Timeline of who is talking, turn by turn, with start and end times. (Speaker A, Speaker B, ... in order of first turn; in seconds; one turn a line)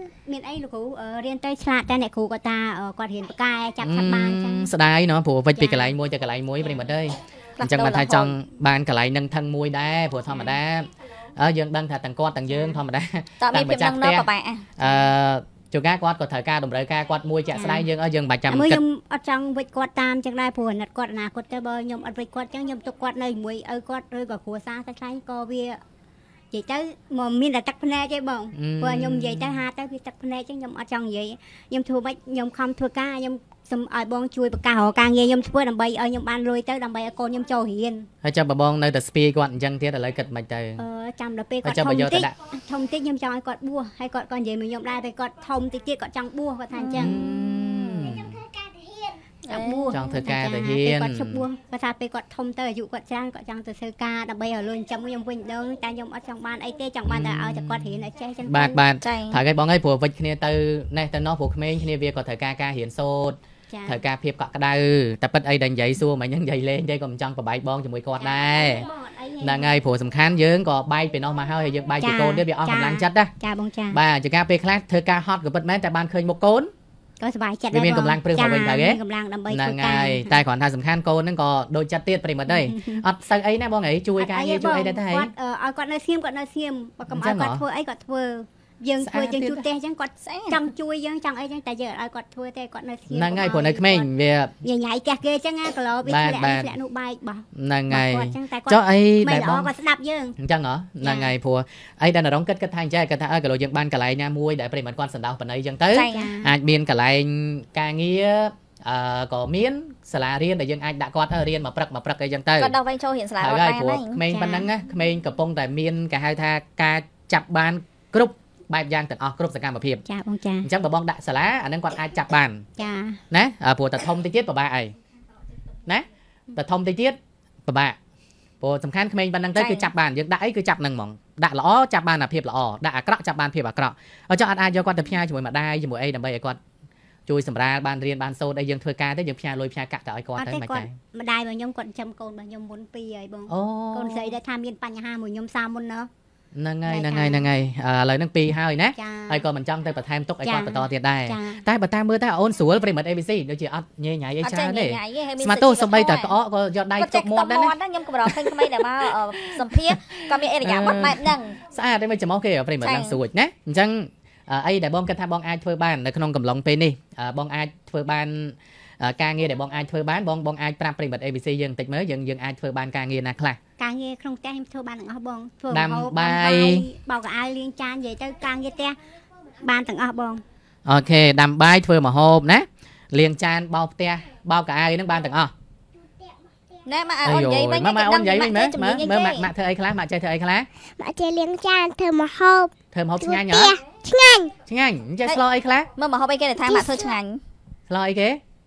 Speaker A: 0.2-4.7
Speaker B: 3.8-18.8
Speaker A: 5.6-5.9
Speaker C: 7.6-8.4
Speaker A: 10.3-10.6
Speaker C: 13.4-14.7
Speaker A: 17.5-17.9
Speaker A: 18.5-25.8
Speaker A: 26.5-38.1
Speaker B: 28.5-29.6
Speaker B: 38.2-40.8
Speaker A: 40.8-47.2
Speaker B: 41.6-42.3
Speaker C: 46.7-48.2
Speaker B: 46.9-48.4
Speaker A: 49.4-58.8
Speaker C: 49.5-49.9
Speaker B: 49.9-51.5
Speaker B: 57.1-68.9
Speaker C: 59.0-59.4
Speaker A: 63.7-64.0
Speaker A: 68.2-69.8
Speaker B: 69.4-73.3
Speaker A: 72.0-74.0
Speaker B: 73.9-76.7
Speaker A: 77.2-80.4
Speaker B: 77.7-85.3
Speaker A: 82.5-83.0
Speaker A: 84.2-94.1
Speaker B: 87.1-87.6
Speaker B: 89.0-89.7
Speaker C: 90.2-90.6
Speaker B: 93.1-94.5
Speaker A: 94.6-100.3
Speaker B: 96.0-96.8
Speaker B: 97.5-99.7
Speaker B: 100.4-112.7
Speaker A: 101.0-101.3
Speaker C: 105.9-106.3
Speaker A: 106.1-106.5
Speaker C: 112.6-114.2
Speaker B: 113.4-120.0
Speaker A: 114.3-114.7
Speaker A: 120.1-120.7
Speaker B: 120.6-122.6
Speaker A: 122.8-123.2
Speaker B: 123.3-124.9
Speaker B: 125.8-128.0
Speaker B: 128.6-136.6
Speaker C: 129.6-129.9
Speaker B: 137.3-140.9
Speaker A: 140.4-146.1
Speaker B: 143.5-144.3
Speaker B: 146.5-157.7
Speaker A: 146.8-147.5
Speaker A: 149.0-149.4
Speaker A: 150.4-151.6
Speaker C: 154.4-156.3
Speaker C: 157.0-161.6
Speaker B: 158.2-173.6
Speaker C: 162.8-163.2
Speaker A: 173.8-179.0
Speaker B: 175.7-176.9
Speaker A: 179.6-180.4
Speaker B: 180.8-185.5
Speaker C: 186.8-189.5
Speaker B: 187.2-190.7
Speaker D: 191.0-194.5
Speaker B: 192.9-193.7
Speaker B: 194.7-195.9
Speaker C: 195.9-197.4
Speaker D: 196.6-197.1
Speaker B: 197.9-198.4